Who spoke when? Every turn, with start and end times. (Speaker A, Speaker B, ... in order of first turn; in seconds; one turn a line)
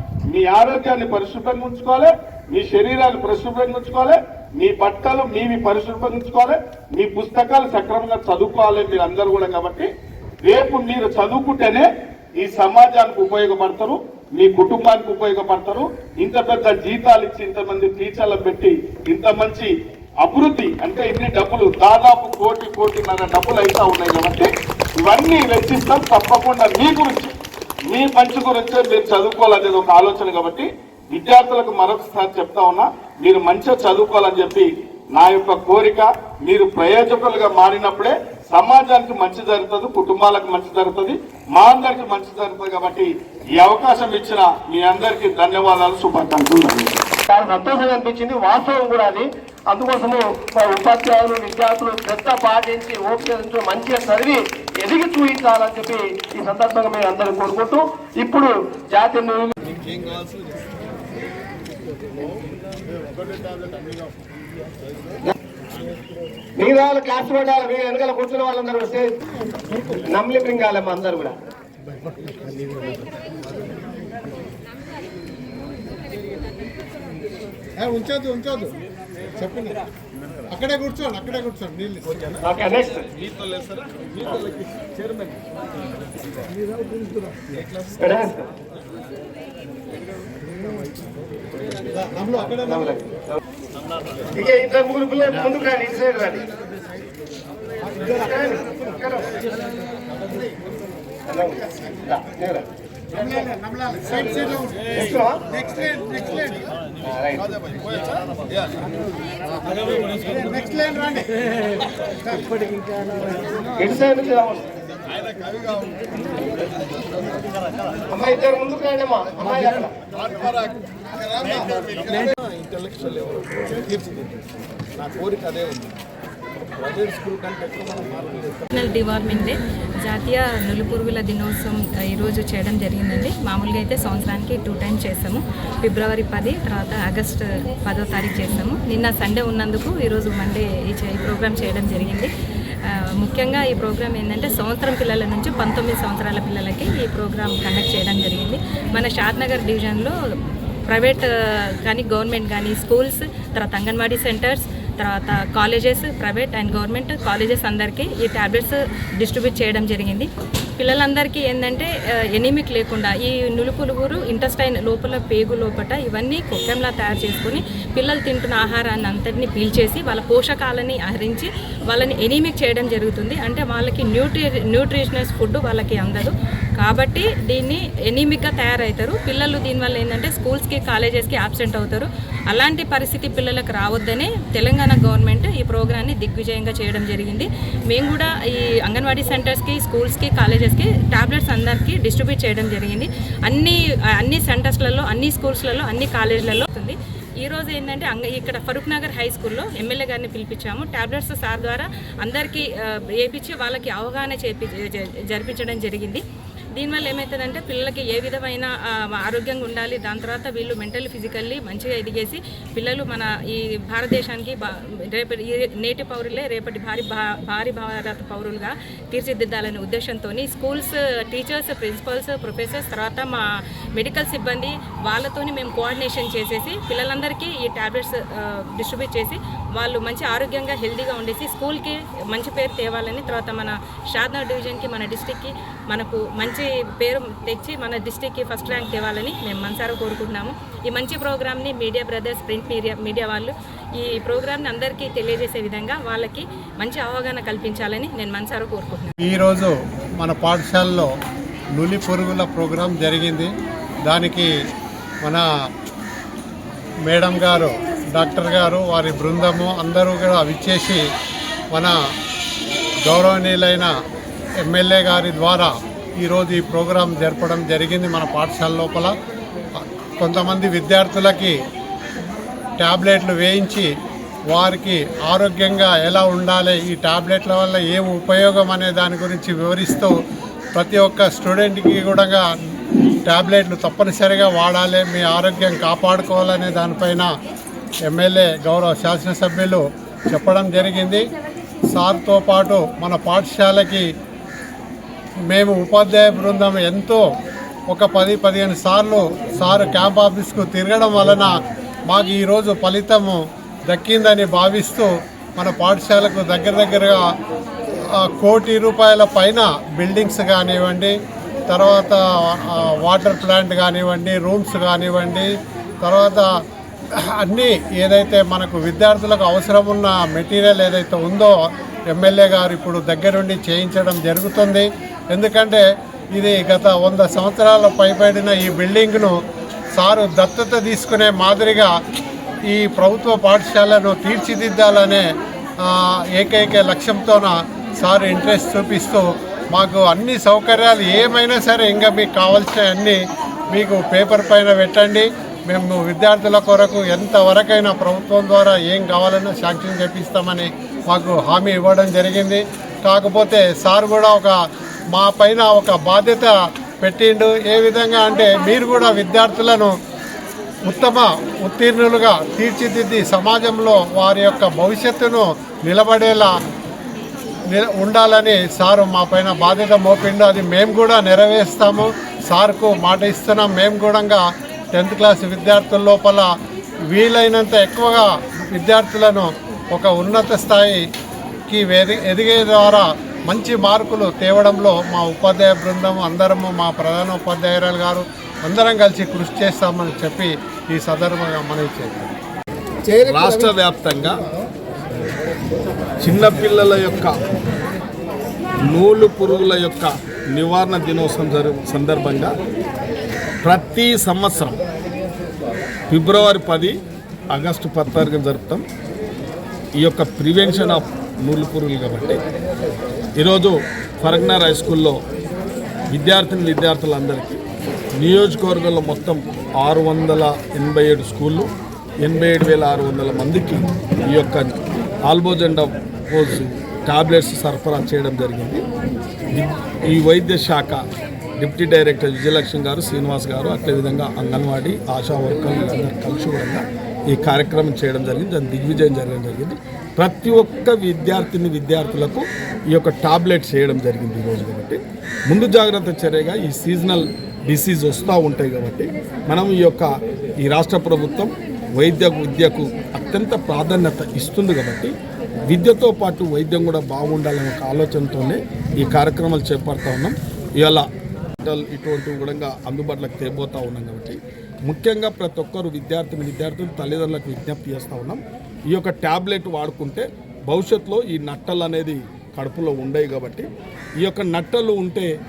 Speaker A: 0.3-9.9
Speaker A: 10.4-19.7
Speaker A: 20.2-24.5
Speaker A: 25.0-27.4
Speaker A: 27.9-47.1
Speaker B: 47.3-59.5
Speaker A: 59.7-60.5
Speaker B: 66.6-69.2
Speaker B: 69.9-71.3
Speaker C: 72.6-72.9
Speaker C: 77.8-78.8
Speaker C: 79.4-79.8
Speaker C: 80.5-82.0
Speaker A: 82.0-82.4
Speaker B: 82.4-83.1
Speaker A: 83.2-85.4
Speaker B: 88.0-88.5
Speaker B: 92.3-93.3
Speaker B: 94.3-96.5
Speaker B: 98.0-99.4
Speaker B: 101.3-102.7
Speaker C: 103.2-104.9
Speaker B: 104.1-105.4
Speaker C: 105.7-106.2
Speaker B: 107.0-107.5
Speaker A: 107.6-108.8
Speaker C: 110.2-111.4
Speaker B: 113.8-114.6
Speaker A: 115.2-116.1
Speaker B: 118.1-119.9
Speaker A: 120.2-124.4
Speaker A: 125.0-126.0
Speaker A: 126.7-128.7
Speaker D: 128.7-142.3
Speaker D: 142.9-150.2
Speaker D: 150.9-206.2
Speaker D: 206.8-249.1
Speaker C: 249.2-251.1
Speaker C: 251.8-253.5
Speaker C: 254.1-254.5
Speaker C: 257.1-261.0
Speaker C: 261.7-262.0
Speaker C: 263.1-263.9
Speaker C: 264.6-269.1
Speaker C: 269.8-271.6
Speaker C: 272.8-273.9
Speaker C: 274.5-280.1
Speaker C: 280.8-282.4
Speaker C: 283.3-287.3
Speaker C: 288.1-291.3
Speaker C: 291.9-294.1
Speaker C: 295.5-297.2
Speaker C: 297.9-301.6
Speaker C: 302.1-307.2
Speaker C: 308.2-311.2
Speaker C: 311.7-316.5
Speaker C: 317.3-321.6
Speaker C: 322.1-329.4
Speaker C: 329.9-331.9
Speaker C: 332.7-335.2
Speaker C: 335.8-343.2
Speaker C: 343.7-354.6
Speaker C: 355.1-360.0
Speaker C: 360.9-366.5
Speaker C: 367.7-376.5
Speaker C: 377.1-381.1
Speaker C: 381.7-392.4
Speaker A: 393.1-394.4
Speaker A: 396.2-397.3
Speaker A: 398.9-402.5
Speaker A: 403.6-404.8
Speaker A: 406.1-407.0
Speaker A: 407.5-408.8
Speaker A: 410.0-412.4
Speaker A: 413.4-415.2
Speaker A: 416.1-417.6
Speaker A: 418.2-421.7
Speaker A: 422.2-428.8
Speaker A: 429.5-431.0
Speaker A: 431.6-450.1
Speaker A: 450.6-455.1
Speaker A: 455.7-461.1
Speaker A: 461.6-473.7
Speaker A: 474.2-475.3